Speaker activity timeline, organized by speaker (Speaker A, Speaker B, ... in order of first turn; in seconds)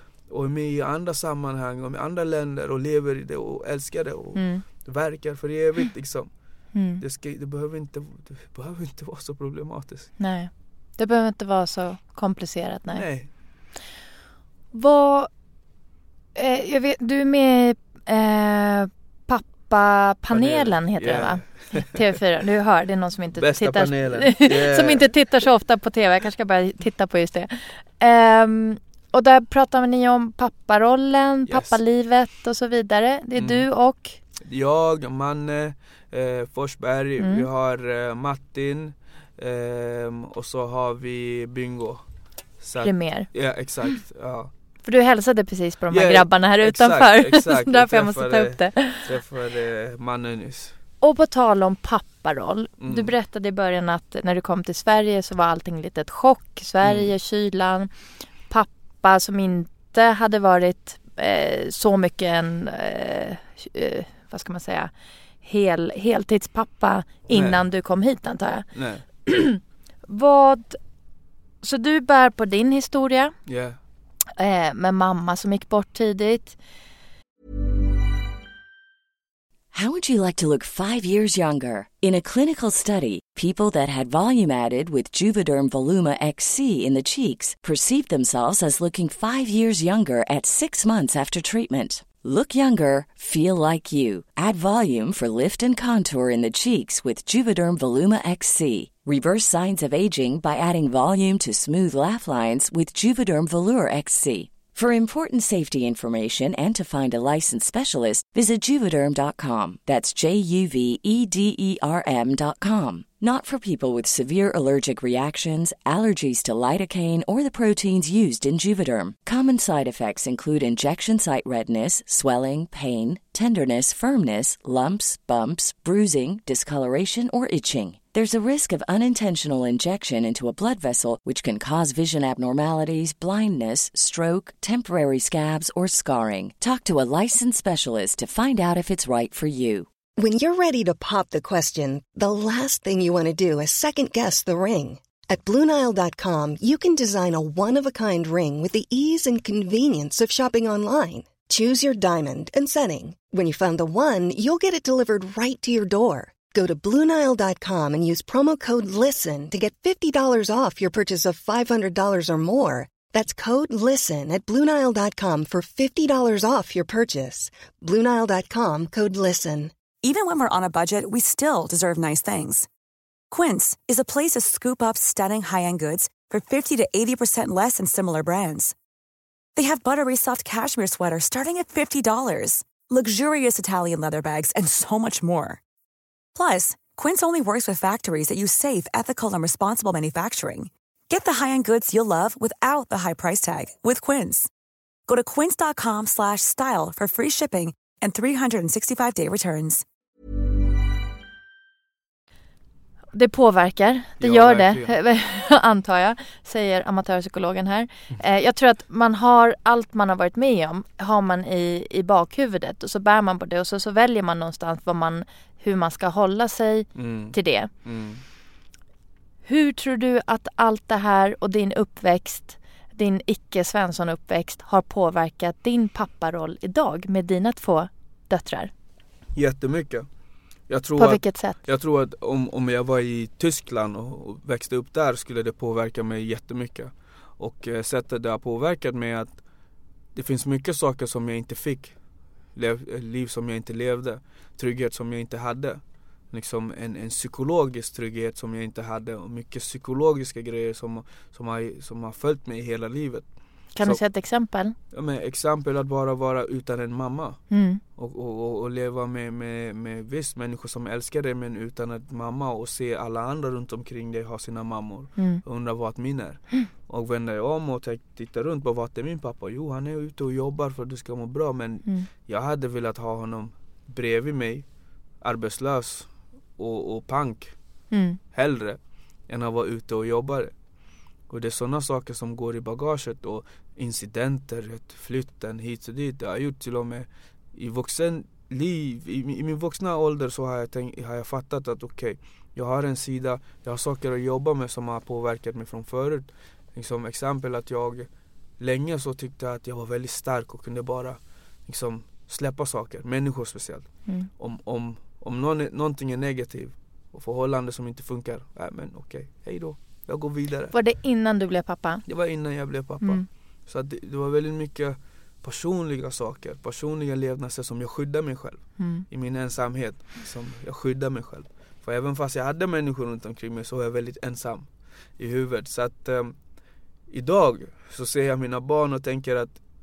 Speaker A: 0.3-6.3, 7.0-10.1, 12.9-13.3, 20.3-22.0, 23.4-25.1, 31.5-31.8, 33.4-33.6, 34.4-42.0, 42.6-44.5, 45.9-50.8, 52.8-53.1, 56.8-57.1, 67.3-67.6, 68.7-69.0, 73.5-73.8, 204.2-204.9, 216.9-218.2, 229.3-230.1, 230.7-239.4, 240.1-241.9, 242.5-253.3, 254.9-257.4, 258.0-274.6, 275.2-277.6, 278.3-280.5, 281.3-310.7, 312.1-326.4, 327.1-329.6
Speaker B: 4.3-4.6, 6.7-7.0, 10.2-13.1, 14.7-15.3, 16.3-34.2, 37.2-37.5, 42.8-43.3, 44.8-49.1, 51.0-57.9, 58.5-64.9, 65.4-68.7, 69.2-70.8, 71.6-73.3, 74.4-76.6, 203.1-217.7, 219.4-228.7, 231.0-231.6, 253.7-254.7, 257.5-257.8, 265.2-265.4, 277.9-278.2, 310.7-312.0, 318.8-319.1
Speaker C: 79.7-139.9
Speaker D: 140.2-169.7
Speaker E: 170.0-172.7, 173.3-178.7, 179.6-185.6, 186.3-194.5, 195.1-199.8